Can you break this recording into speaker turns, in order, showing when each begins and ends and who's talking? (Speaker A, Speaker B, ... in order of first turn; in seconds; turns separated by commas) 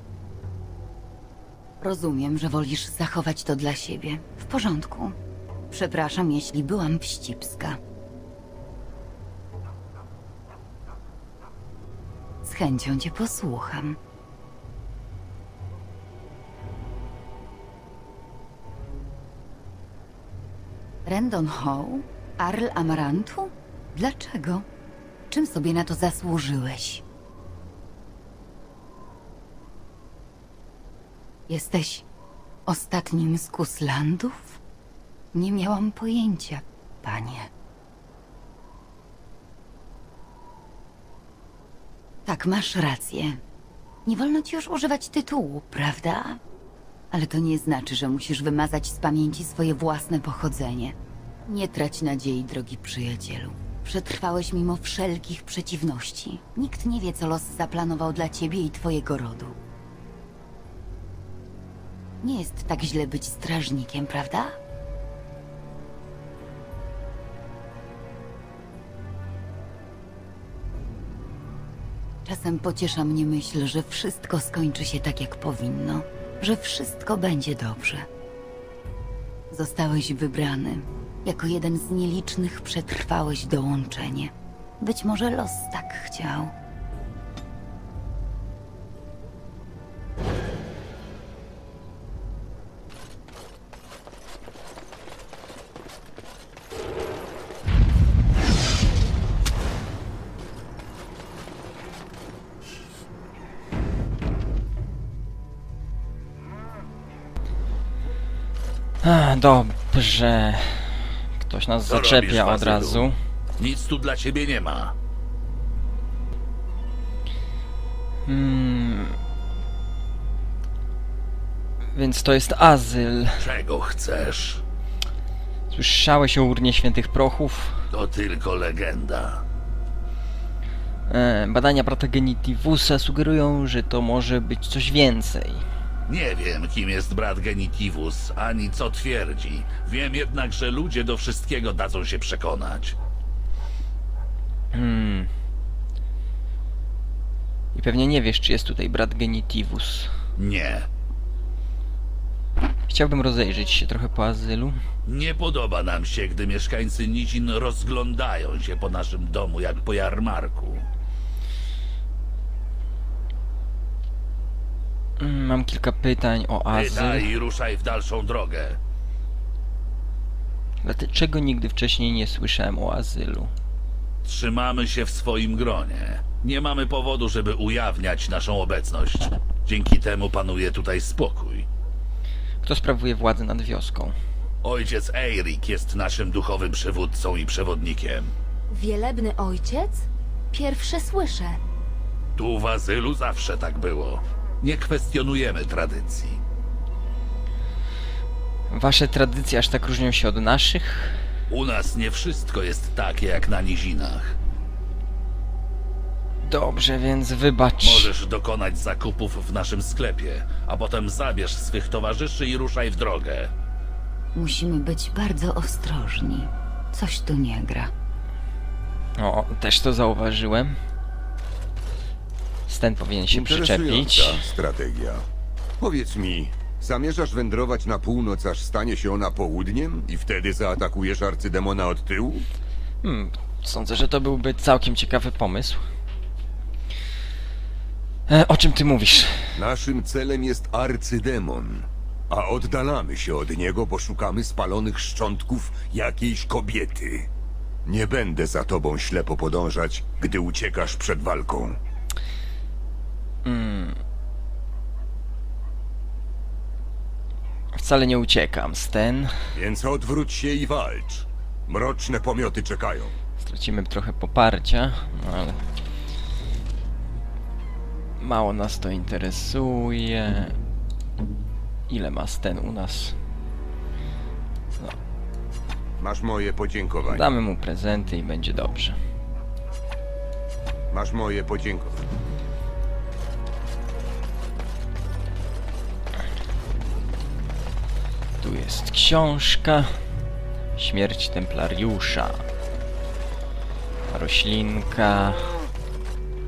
Speaker A: 1.8-5.2, Speaker A: 5.7-7.8, Speaker A: 12.4-14.0, Speaker A: 21.1-24.6, Speaker A: 25.3-27.0, Speaker A: 31.5-32.0, Speaker A: 32.7-34.6, Speaker A: 35.3-37.5, Speaker A: 42.2-43.4, Speaker A: 44.0-46.4, Speaker A: 47.1-51.0, Speaker A: 51.5-59.6, Speaker A: 62.2-64.5, Speaker A: 72.2-78.1, Speaker A: 79.5-86.5, Speaker B: 109.0-113.2, Speaker C: 111.9-113.0, Speaker C: 113.6-114.9, Speaker B: 118.2-119.2, Speaker B: 121.9-123.3, Speaker C: 123.4-124.6, Speaker B: 125.7-127.8, Speaker C: 127.9-129.4, Speaker B: 131.1-135.7, Speaker C: 136.1-142.9, Speaker B: 144.7-145.3, Speaker B: 147.7-150.1, Speaker C: 150.4-150.9, Speaker B: 152.9-154.8, Speaker C: 155.1-160.9, Speaker B: 165.2-167.3, Speaker C: 166.7-168.8, Speaker B: 170.8-173.5, Speaker C: 174.2-181.7, Speaker B: 182.6-184.1, Speaker C: 184.6-188.3, Speaker D: 189.0-189.9, Speaker D: 190.5-191.5, Speaker C: 192.3-196.4, Speaker B: 198.7-201.2, Speaker C: 201.5-204.3, Speaker B: 206.4-208.1, Speaker C: 207.8-213.5, Speaker A: 214.3-217.9, Speaker B: 219.2-220.8, Speaker B: 222.7-224.4, Speaker E: 223.3-225.2, Speaker E: 225.8-232.4, Speaker B: 233.0-235.8, Speaker B: 238.3-239.4, Speaker E: 239.6-247.3, Speaker E: 247.8-251.8, Speaker B: 253.4-254.0, Speaker B: 257.8-259.3, Speaker E: 259.5-263.1, Speaker B: 263.4-265.6, Speaker B: 268.2-270.5, Speaker B: 271.9-273.1, Speaker E: 276.0-277.3, Speaker B: 277.0-278.9, Speaker E: 280.9-282.0, Speaker B: 288.4-289.9, Speaker B: 290.8-292.4, Speaker B: 294.1-295.6